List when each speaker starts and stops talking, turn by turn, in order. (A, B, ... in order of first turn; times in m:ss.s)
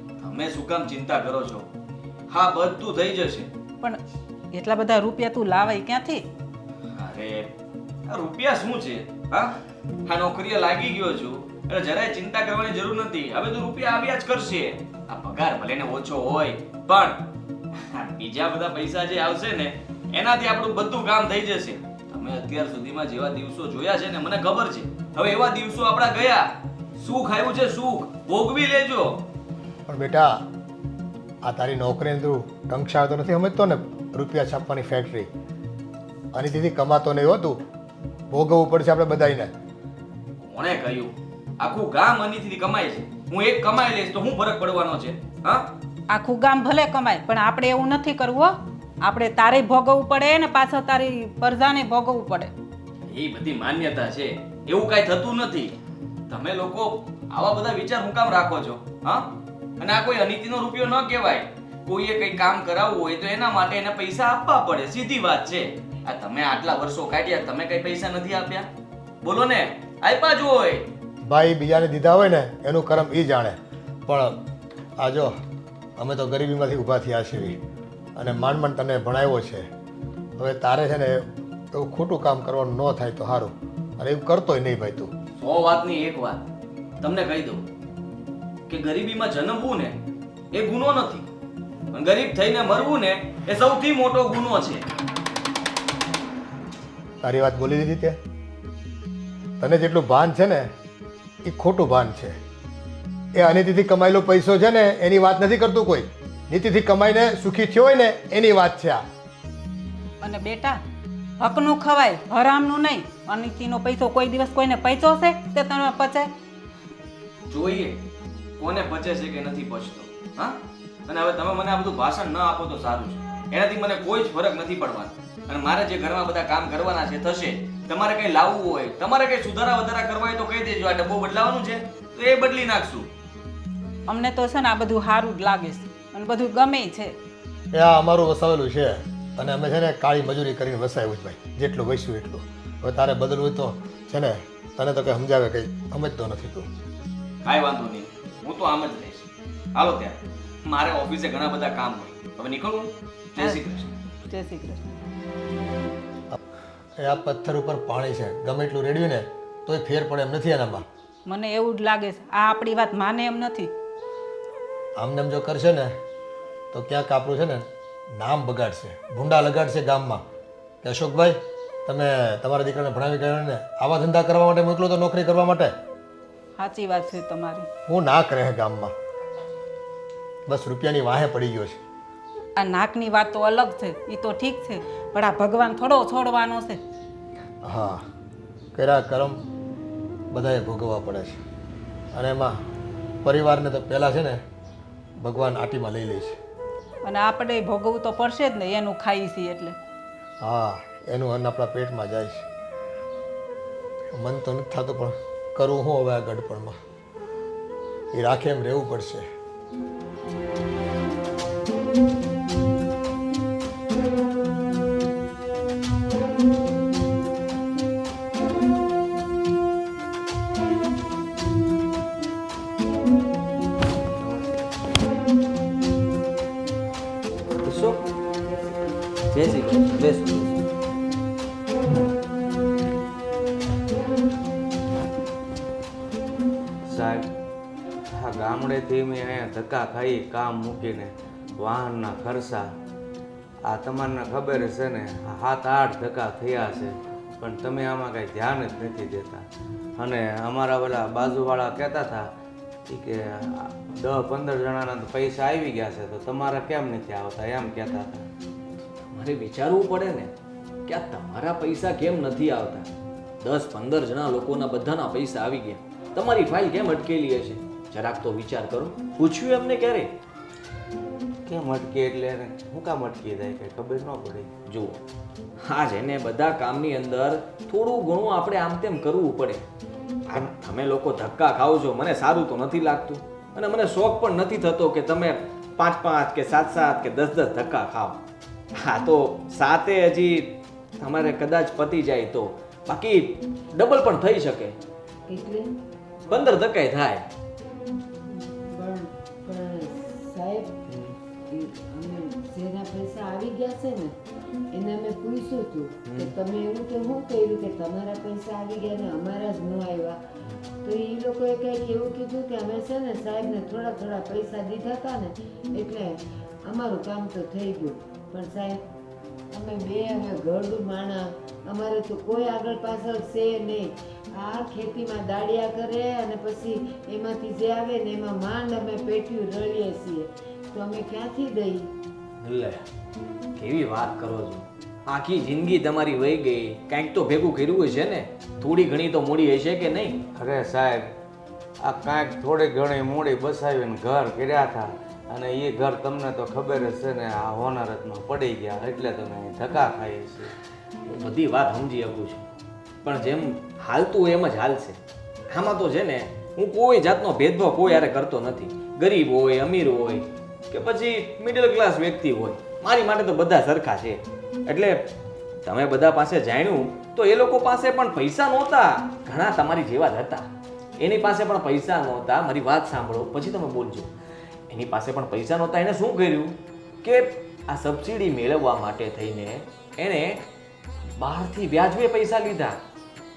0:00.2-0:01.7 A
0:02.3-0:03.5 A
0:04.5-0:06.2 B
0:06.9-0:07.5 A
0:08.1-0:17.2 A
0:17.8-0:29.2 A
0:29.9-0:30.3 C
0:31.4-0:35.3 C
0:36.3-0:37.6 C
0:38.3-0:39.5 C
0:40.4-0:45.7 A
0:46.1-0:52.5 B
0:53.1-0:55.7 A
0:56.3-0:59.3 A
0:59.8-1:08.7 A
1:09.2-1:10.9 A
1:11.3-1:14.4 C
1:15.0-1:15.3 C
1:16.0-1:17.6 C
1:18.2-1:19.7 C
1:20.4-1:25.1 C
1:25.4-1:26.4 A
1:27.0-1:27.6 A
1:28.7-1:30.0 A
1:30.5-1:31.2 A
1:31.9-1:34.8 A
1:37.2-1:38.2 C
1:39.6-1:40.7 C
1:41.4-1:42.3 C
1:43.3-1:49.0 C
1:50.2-1:50.8 B
1:51.4-1:56.3 B
1:57.5-1:58.0 A
1:58.6-2:13.1 A
2:14.1-2:17.1 B
2:17.7-2:26.7 C
2:27.4-2:33.9 A
2:34.2-2:34.8 B
2:37.0-2:40.8 C
2:41.2-2:43.7 B
2:45.0-2:45.9 C
2:46.7-2:50.2 C
2:50.8-2:55.7 C
2:56.6-2:57.7 B
2:57.9-2:58.9 C
3:00.5-3:01.8 C
3:02.6-3:06.8 B
3:07.6-3:08.0 C
3:08.7-3:09.4 C
3:10.3-3:11.4 C
3:12.1-3:12.5 C
3:13.2-3:14.4 C
3:15.2-3:16.4 C
3:17.0-3:19.7 B
3:20.4-3:22.4 C
3:24.1-3:26.7 C
3:28.1-3:29.2 C
3:47.6-3:48.0 A
3:49.3-3:50.6 A
3:56.9-3:57.2 D
3:58.1-4:02.6 D
4:03.7-4:09.4 D
4:10.0-4:12.3 D
4:12.9-4:18.3 D
4:19.1-4:20.3 A
4:20.9-4:22.9 A
4:23.4-4:30.1 A
4:31.4-4:34.5 D
4:34.7-4:35.0 A
4:35.6-4:39.6 A
4:40.3-4:48.2 A
4:48.8-4:54.8 A
4:55.3-4:55.7 E
4:56.3-4:57.2 A
4:58.3-5:00.7 E
5:01.5-5:04.1 E
5:04.7-5:10.2 E
5:06.0-5:06.3 A
5:10.8-5:18.8 E
5:19.5-5:31.9 E
5:32.4-5:32.8 A
5:33.6-5:40.2 A
5:40.4-5:41.1 D
5:41.8-5:50.5 D
5:51.1-5:52.4 A
5:53.0-5:55.0 A
5:55.5-6:05.0 A
6:05.6-6:10.4 A
6:11.0-6:14.1 A
6:14.7-6:20.4 A
6:21.2-6:22.8 A